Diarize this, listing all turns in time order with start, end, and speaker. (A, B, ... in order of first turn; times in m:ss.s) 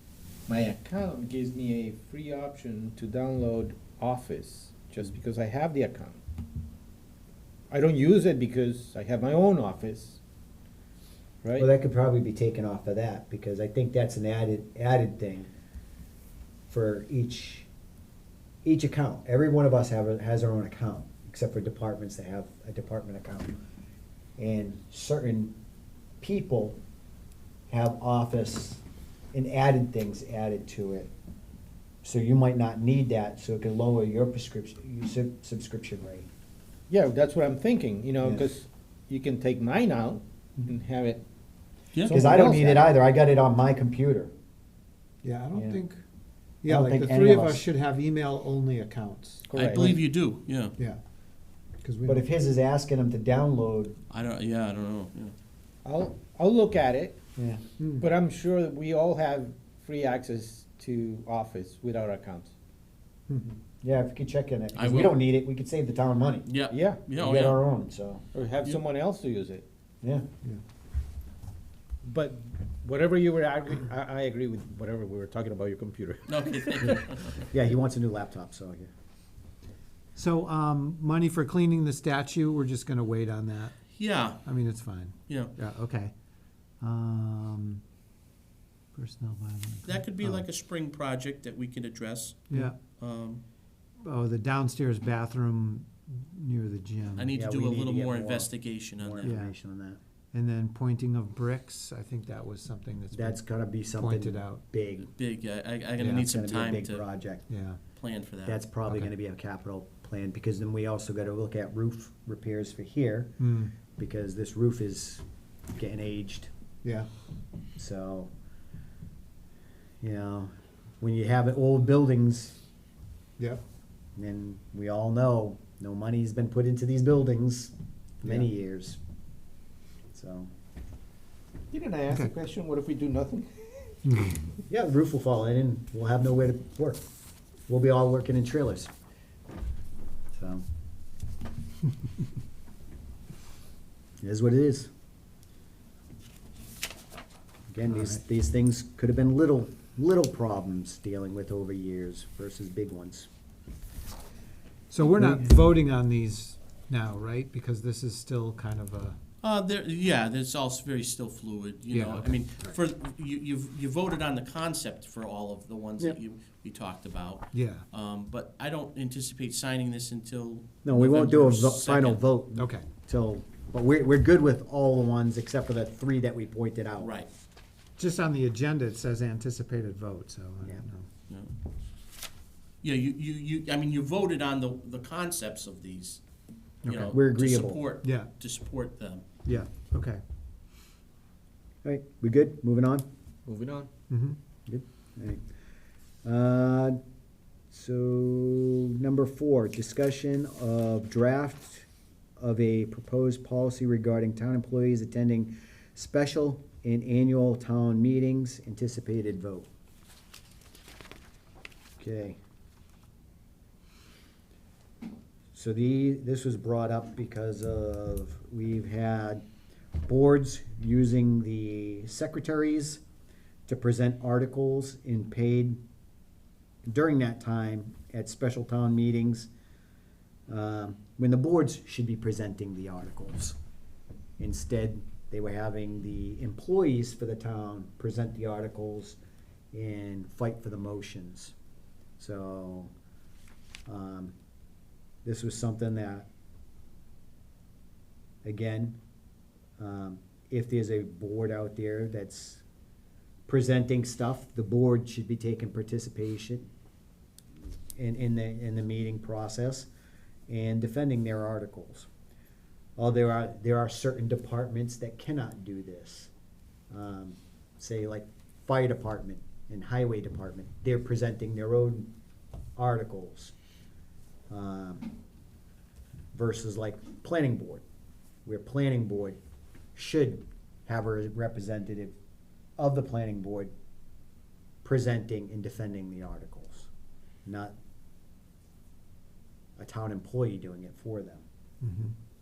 0:00.5-0:06.2 A
0:07.7-0:10.2 A
0:11.4-0:11.7 A
0:11.6-0:15.5 B
0:16.7-0:17.7 B
0:18.6-0:23.6 B
0:24.4-0:25.6 B
0:26.2-0:26.8 B
0:27.7-0:28.8 B
0:29.3-0:31.1 B
0:32.0-0:36.3 B
0:36.9-0:41.2 A
0:42.0-0:42.9 A
0:42.1-0:44.3 B
0:45.2-0:46.0 C
0:45.5-0:45.8 B
0:46.6-0:49.5 C
0:46.7-0:47.6 B
0:49.5-0:50.0 A
0:49.5-0:50.7 D
0:51.8-0:52.2 C
0:52.1-0:54.0 B
0:54.1-0:55.3 D
0:55.8-0:57.2 A
0:57.4-0:57.6 B
0:57.8-0:58.1 C
0:58.0-1:02.5 A
1:03.8-1:06.5 B
1:04.8-1:05.2 D
1:06.5-1:07.6 D
1:06.7-1:07.0 A
1:07.2-1:08.2 B
1:08.3-1:09.6 A
1:12.0-1:17.1 A
1:16.3-1:17.4 D
1:16.8-1:18.9 B
1:20.2-1:23.8 C
1:23.9-1:24.4 D
1:24.4-1:26.1 C
1:25.3-1:25.5 D
1:26.8-1:27.8 C
1:28.9-1:30.4 C
1:29.8-1:33.4 D
1:32.5-1:32.8 C
1:34.0-1:37.4 C
1:37.2-1:39.3 D
1:37.3-1:40.0 B
1:39.2-1:39.6 C
1:40.3-1:43.4 C
1:43.1-1:45.1 B
1:43.9-1:44.6 C
1:45.1-1:47.0 D
1:46.0-1:47.5 B
1:47.5-1:47.8 C
1:48.0-1:48.6 D
1:48.4-1:53.3 B
1:53.4-1:53.8 C
1:53.9-1:55.2 B
1:55.8-1:56.5 B
1:56.8-1:57.1 C
1:57.8-1:58.3 B
2:00.0-2:02.6 B
2:04.2-2:09.0 B
2:10.1-2:10.5 B
2:11.7-2:14.0 A
2:14.0-2:14.5 C
2:14.7-2:17.0 B
2:17.7-2:18.9 B
2:20.3-2:20.6 B
2:24.2-2:24.9 B
2:27.7-2:33.3 B
2:27.9-2:28.2 C
2:34.9-2:39.2 C
2:39.4-2:52.2 D
2:41.9-2:42.8 C
2:47.5-2:47.8 C
2:50.8-2:57.1 B
2:52.6-2:52.9 C
2:57.0-2:57.3 D
2:58.0-3:01.1 C
3:02.8-3:06.2 D
3:06.8-3:09.2 D
3:06.8-3:07.1 C
3:07.0-3:07.9 B
3:08.0-3:08.3 C
3:09.4-3:10.2 C
3:11.8-3:13.0 B
3:13.5-3:13.9 A
3:14.1-3:14.4 C
3:14.7-3:15.4 B
3:16.2-3:17.0 B
3:17.7-3:21.9 B
3:22.4-3:29.7 B
3:32.0-3:32.4 B
3:35.6-3:39.4 B
3:40.1-3:43.0 B
3:43.7-3:45.8 B
3:46.9-3:49.5 B
3:50.5-3:53.6 B
3:54.4-3:59.2 B
3:59.7-4:01.5 B
4:02.2-4:02.9 B
4:03.9-4:04.4 B
4:05.2-4:06.3 B
4:08.4-4:09.0 B
4:09.8-4:12.6 B
4:13.5-4:16.7 B
4:18.0-4:19.9 B
4:20.5-4:22.1 B
4:23.0-4:26.3 B
4:26.9-4:32.1 B
4:32.8-4:33.5 B
4:34.5-4:35.1 B
4:36.3-4:37.8 B
4:38.5-4:39.4 B
4:40.0-4:42.1 B
4:42.8-4:43.7 B
4:44.8-4:46.9 B
4:47.5-4:47.8 B
4:49.8-4:51.4 B
4:51.8-4:52.2 C